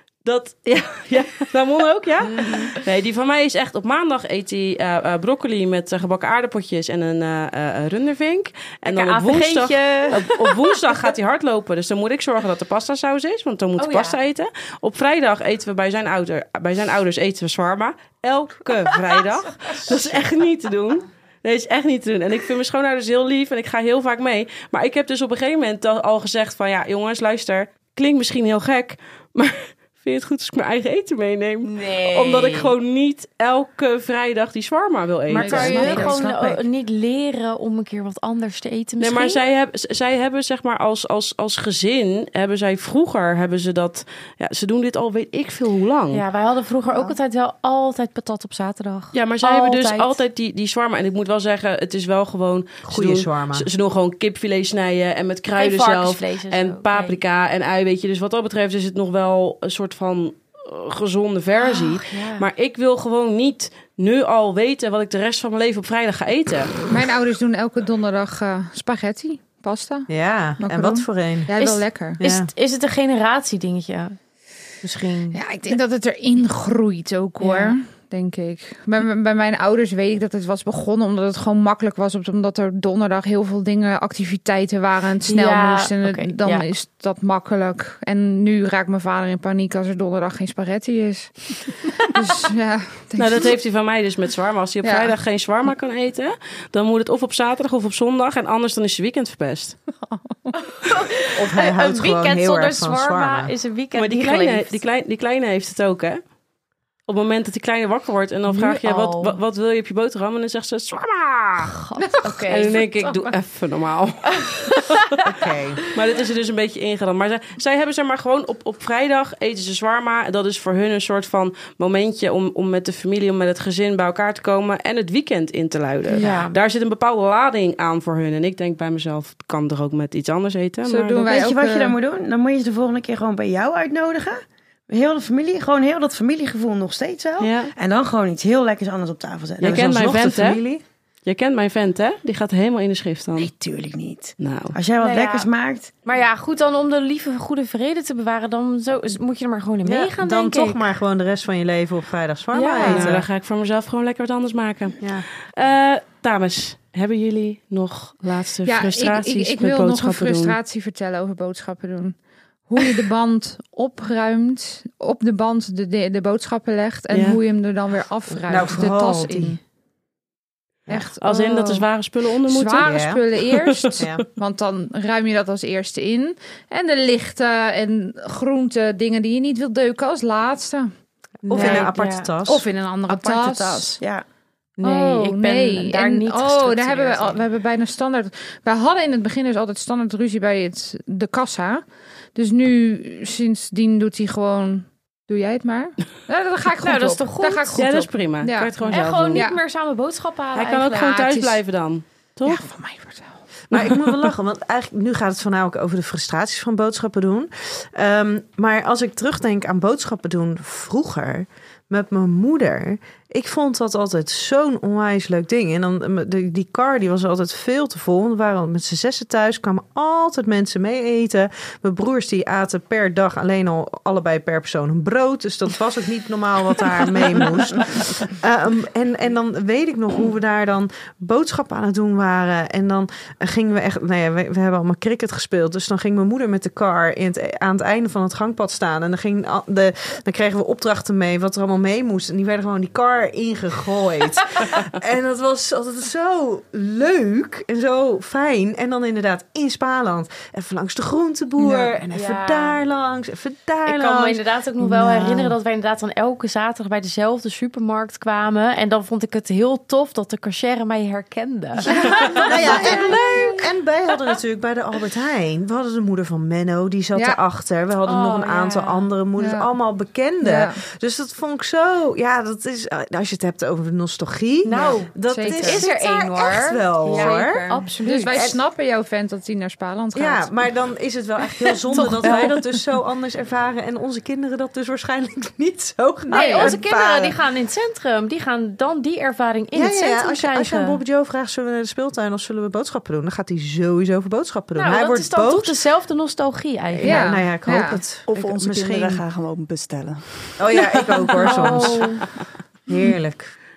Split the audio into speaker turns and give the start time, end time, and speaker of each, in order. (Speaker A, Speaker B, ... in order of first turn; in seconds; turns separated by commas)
Speaker A: 0.2-36.1, Speaker B: 2.4-2.7, Speaker B: 8.8-10.9, Speaker B: 13.8-14.2, Speaker C: 19.9-20.1, Speaker B: 31.8-32.7, Speaker B: 35.3-39.4, Speaker D: 35.3-36.6, Speaker E: 35.4-36.1, Speaker A: 39.0-46.2, Speaker B: 46.1-50.2, Speaker F: 46.9-47.1, Speaker A: 49.1-66.7, Speaker C: 52.8-53.7, Speaker B: 55.5-57.2, Speaker B: 61.6-62.5, Speaker E: 66.9-70.1, Speaker C: 70.1-71.5, Speaker E: 70.6-72.2, Speaker B: 71.6-74.2, Speaker C: 72.2-72.5, Speaker B: 74.8-75.4, Speaker E: 75.3-93.5, Speaker B: 77.4-77.8, Speaker B: 85.2-86.7, Speaker A: 93.2-99.8, Speaker E: 94.8-95.1, Speaker E: 100.0-100.5, Speaker B: 100.8-104.8, Speaker C: 101.3-103.5, Speaker A: 103.9-106.2, Speaker A: 107.1-111.7, Speaker B: 108.5-109.4, Speaker B: 111.6-112.9, Speaker E: 112.0-113.3, Speaker A: 112.5-115.2, Speaker C: 115.2-115.8, Speaker A: 115.9-131.4, Speaker B: 126.1-126.5, Speaker E: 130.8-132.0, Speaker D: 131.2-139.8, Speaker A: 137.4-137.7, Speaker A: 139.6-140.6, Speaker C: 139.6-140.8, Speaker A: 141.2-143.5, Speaker D: 143.4-145.9, Speaker A: 144.4-144.8, Speaker B: 145.0-145.5, Speaker B: 146.0-150.8, Speaker C: 149.8-153.2, Speaker B: 152.5-153.1, Speaker A: 152.8-160.6, Speaker C: 155.0-155.2, Speaker E: 158.7-162.2, Speaker E: 162.7-169.6, Speaker A: 167.1-167.4, Speaker C: 168.5-169.6, Speaker E: 170.9-171.8, Speaker A: 171.2-173.9, Speaker E: 172.5-180.9, Speaker C: 172.8-173.2, Speaker C: 173.9-174.2, Speaker C: 181.4-182.7, Speaker B: 181.5-182.3, Speaker E: 181.5-181.9, Speaker E: 182.4-184.0, Speaker D: 184.0-184.2, Speaker B: 184.8-187.4, Speaker E: 184.8-199.6, Speaker B: 196.8-198.1, Speaker A: 197.7-199.4, Speaker B: 198.9-201.2, Speaker A: 200.5-202.6, Speaker E: 201.0-201.6, Speaker E: 202.4-203.3, Speaker C: 203.7-255.6, Speaker B: 252.1-252.8, Speaker B: 253.8-263.5, Speaker C: 261.8-278.6, Speaker B: 268.0-269.1, Speaker E: 269.4-269.7, Speaker E: 270.4-270.8, Speaker B: 274.6-278.5, Speaker E: 275.3-275.9, Speaker E: 277.1-280.5, Speaker C: 280.1-287.4, Speaker B: 281.9-282.6, Speaker B: 286.3-291.0, Speaker E: 286.3-286.8, Speaker C: 289.7-295.7, Speaker B: 294.7-297.4, Speaker C: 296.9-299.2, Speaker E: 297.0-298.0, Speaker F: 298.3-301.2, Speaker C: 300.6-302.2, Speaker B: 301.4-302.2, Speaker C: 302.9-303.5